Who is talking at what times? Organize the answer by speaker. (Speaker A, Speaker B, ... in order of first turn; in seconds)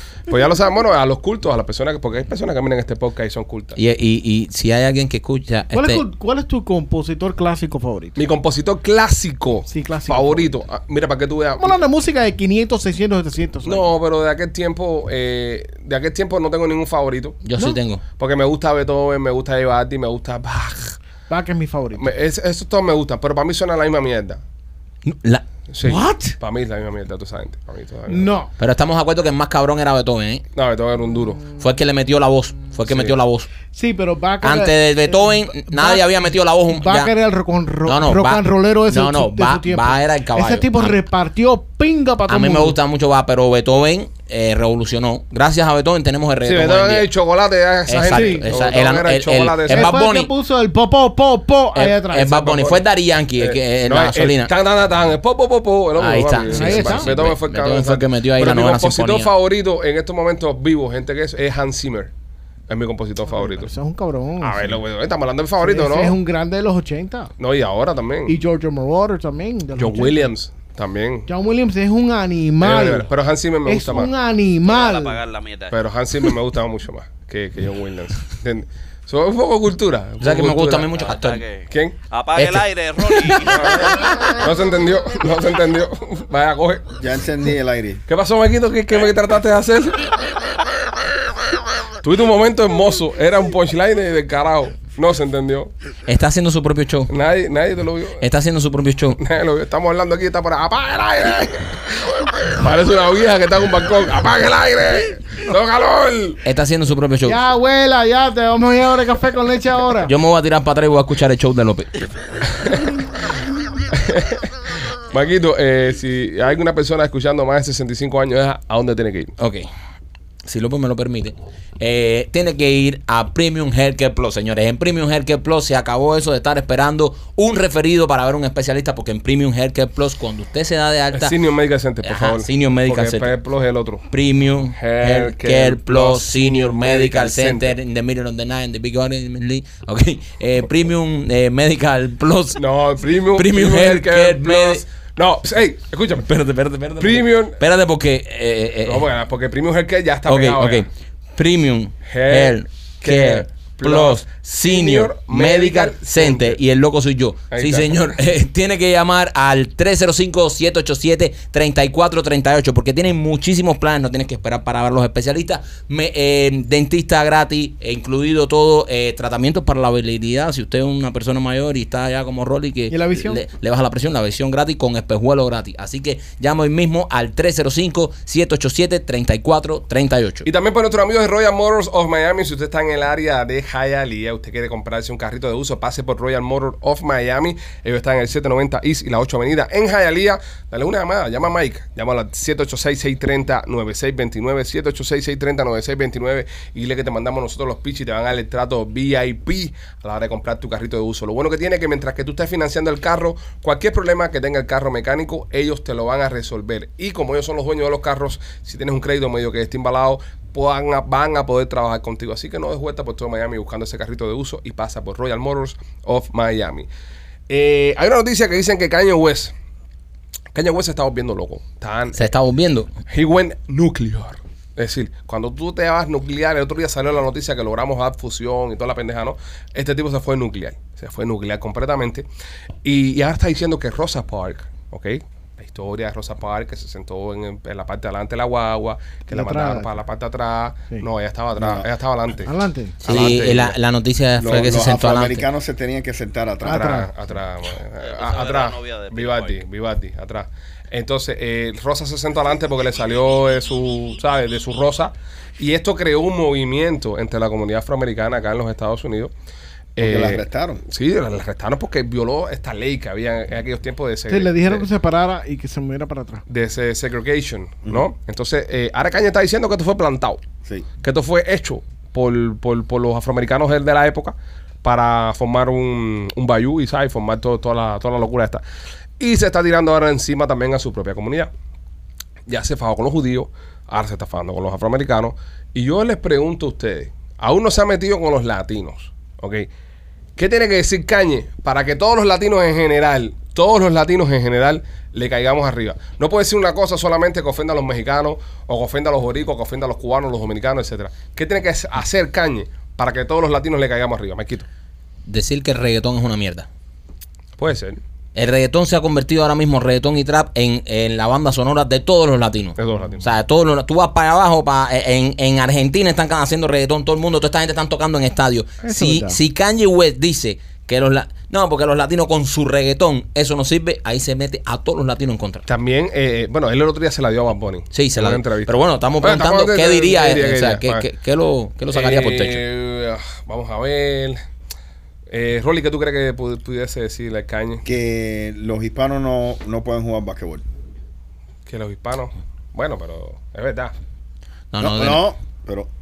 Speaker A: 0.3-3.8, 8.2-11.8, 13.6-17.4, 18.2-21.0, 22.0-24.4, 25.7-28.4, 30.6-31.5, 32.9-33.1, 46.5-49.9, 52.3-52.8, 53.4-62.1, 62.7-63.7, 64.4-66.2, 67.4-68.4, 69.8-71.3, 72.6-74.1, 75.7-80.9, 81.7-82.0, 83.5-86.9, 88.1-90.2, 92.0-95.7, 97.1-98.2, 99.2-106.4, 112.6-112.9, 113.9-114.5, 115.1-119.3, 131.1-134.1, 134.8-137.8, 142.6-146.3, 147.0-147.6, 148.8-150.9, 152.1-156.6, 157.5-158.0, 180.4-216.9, 217.5-219.5, 220.5-222.2, 223.1-232.3, 232.8-242.5, 243.0-243.8, 246.7-259.3, 260.0-264.9, 266.5-270.4, 271.0-278.6, 279.2-281.5, 282.5-289.7, 290.4-304.7, 307.6-308.0, 312.8-313.3, 325.7-331.0, 331.9-334.4, 335.3-337.8, 341.7-343.9
Speaker B: 3.8-6.0, 17.4-18.0, 25.1-25.4, 28.6-30.4, 31.5-33.5, 34.4-37.1, 37.9-41.0, 42.3-47.1, 47.9-50.3, 51.8-54.5, 56.0-59.3, 80.2-81.4, 82.4-83.5, 96.1-97.1, 98.2-99.2, 106.5-107.4, 110.0-112.1, 119.4-119.7, 120.5-131.3, 132.0-133.3, 134.1-142.6, 143.3-144.8, 146.2-149.1, 150.3-180.5, 222.2-222.9, 243.0-245.4, 305.3-306.7, 308.4-325.7, 327.9-332.6, 344.7-345.2
Speaker C: 5.7-8.2, 9.7-10.5, 11.6-13.9, 21.3-22.1, 25.8-26.4, 28.1-28.5, 33.7-36.1, 36.7-42.8, 48.1-48.6, 49.7-52.4, 56.5-57.1, 63.3-64.8, 65.6-67.3, 68.3-70.3, 71.3-73.1, 73.7-75.2, 107.2-110.1, 172.9-173.4, 239.3-239.9, 242.5-243.0, 246.6-247.1, 264.3-266.4, 318.8-319.4
Speaker D: 74.7-75.8, 81.0-84.1, 248.0-249.6
Speaker E: 87.0-88.0, 241.6-241.9, 244.4-247.0, 260.0-260.8, 337.9-340.6, 344.8-345.9